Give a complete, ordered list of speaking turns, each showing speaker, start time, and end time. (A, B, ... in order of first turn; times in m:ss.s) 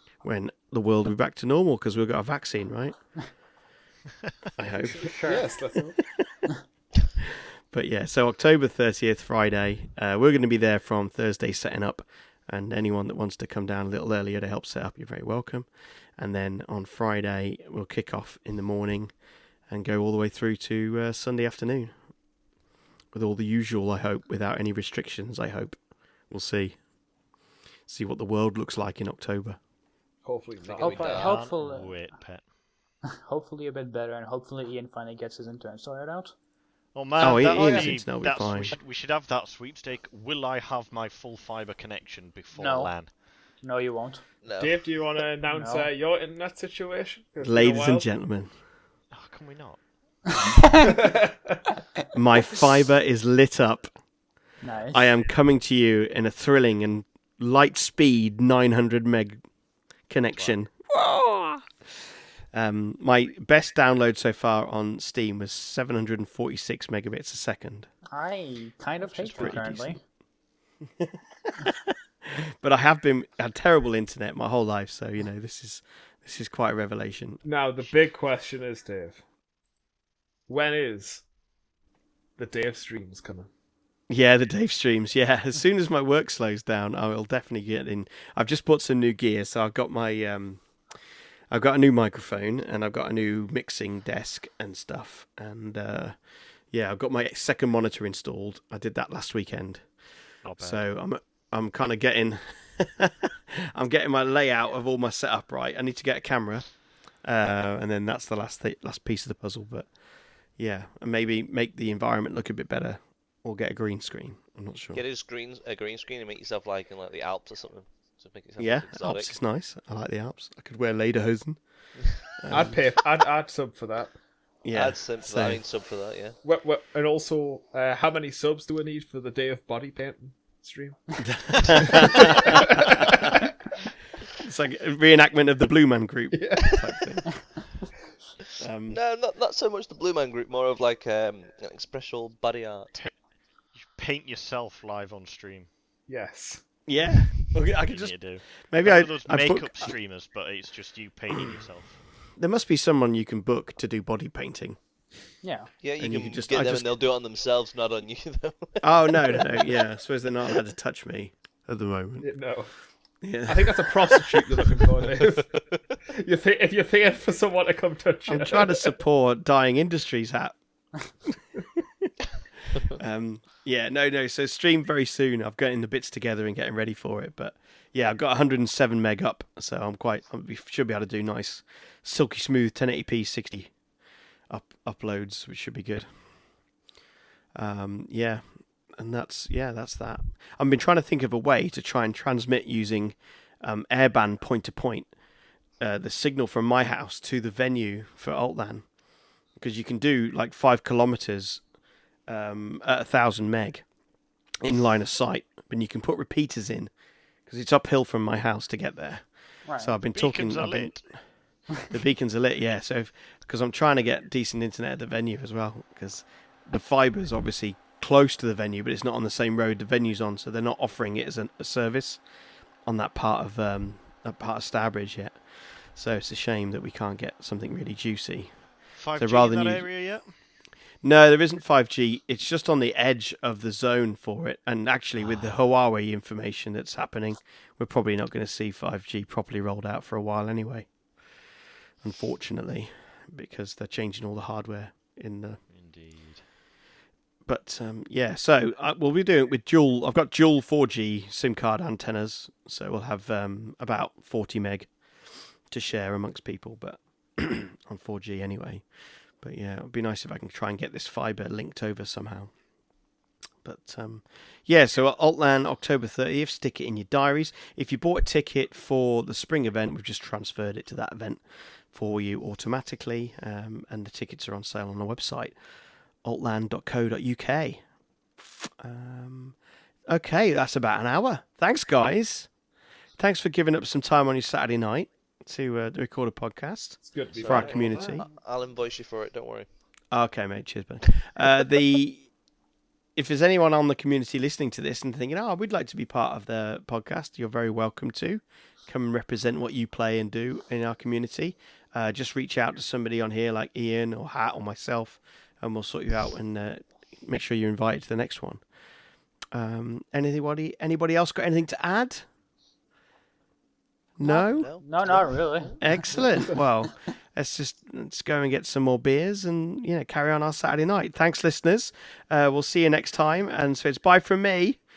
0:00.2-0:03.0 A
0:04.6-0:05.2 A
0:05.0-0:06.0 B
0:05.0-0:05.5 C
0:07.3-0:19.1 A
0:19.7-0:21.9 A
0:23.1-0:25.8 A
0:26.3-0:26.8 A
0:27.9-0:29.6 A
0:30.2-0:31.3 B
0:30.6-0:31.4 D
0:30.8-0:32.0 C
0:31.0-0:32.4 E
0:33.1-0:36.3 C
0:36.9-0:43.1 E
0:37.2-0:38.8 A
0:37.2-0:37.9 B
0:42.5-0:43.0 C
0:43.6-0:44.2 C
0:44.4-0:45.0 D
0:44.6-0:48.1 B
0:45.5-0:45.9 C
0:47.4-0:48.5 A
0:49.1-0:50.6 E
0:50.4-0:50.9 C
0:50.7-0:51.6 B
0:52.1-0:53.9 A
0:54.6-0:55.1 C
0:54.9-0:59.4 A
1:00.1-1:01.9 A
1:02.5-1:07.9 A
1:08.1-1:10.0 C
1:09.1-1:10.0 A
1:09.3-1:09.6 E
1:11.0-1:17.4 A
1:17.4-1:19.2 B
1:20.5-1:21.2 B
1:22.4-1:23.5 B
1:24.1-1:30.6 A
1:31.5-1:36.2 A
1:36.7-1:39.9 A
1:40.4-1:40.8 E
1:40.5-1:49.9 A
1:50.6-1:55.0 A
1:54.9-1:59.3 D
1:58.6-2:01.6 A
2:02.2-2:02.8 A
2:02.5-2:04.2 B
2:04.6-2:05.6 A
2:04.7-2:06.4 D
2:06.4-2:11.2 B
2:11.2-2:13.3 A
2:11.7-2:13.4 B
2:14.4-2:17.5 A
2:16.3-2:17.1 B
2:18.6-2:19.0 A
2:18.9-2:23.0 D
2:23.7-2:25.7 E
2:26.1-2:26.6 B
2:26.9-2:29.9 A
2:27.7-2:32.0 E
2:32.4-2:34.8 A
2:35.4-2:35.7 C
2:35.8-2:39.8 D
2:36.0-2:36.9 A
2:38.8-2:42.3 A
2:42.2-2:42.7 B
2:43.2-2:44.8 A
2:43.4-2:49.0 B
2:48.3-2:50.6 A
2:51.2-2:52.1 A
2:52.6-3:03.7 A
3:04.5-3:06.1 A
3:07.5-3:08.4 A
3:08.9-3:15.1 A
3:15.8-3:18.8 A
3:19.6-3:21.6 A
3:22.3-3:23.8 A
3:24.6-3:26.9 A
3:27.4-3:31.1 A
3:29.6-3:30.0 C
3:30.1-3:31.0 E
3:31.8-3:42.2 A
3:42.8-3:48.5 A
3:49.0-3:50.3 E
3:49.1-3:49.9 A
3:51.0-4:00.9 A
4:02.0-4:05.6 A
4:05.7-4:06.4 E
4:07.4-4:14.9 A
4:15.7-4:18.8 A
4:19.4-4:22.5 A
4:23.6-4:35.5 A
4:36.2-4:37.8 A
4:38.4-4:39.6 A
4:40.1-4:42.5 A
4:43.2-4:48.2 A
4:47.0-4:48.2 B
4:47.3-4:49.7 D
4:50.1-4:52.3 A
4:53.2-5:08.6 A
5:09.5-5:12.2 A
5:14.2-5:14.7 A
5:14.2-5:15.8 C
5:14.3-5:16.3 D
5:15.8-5:24.8 A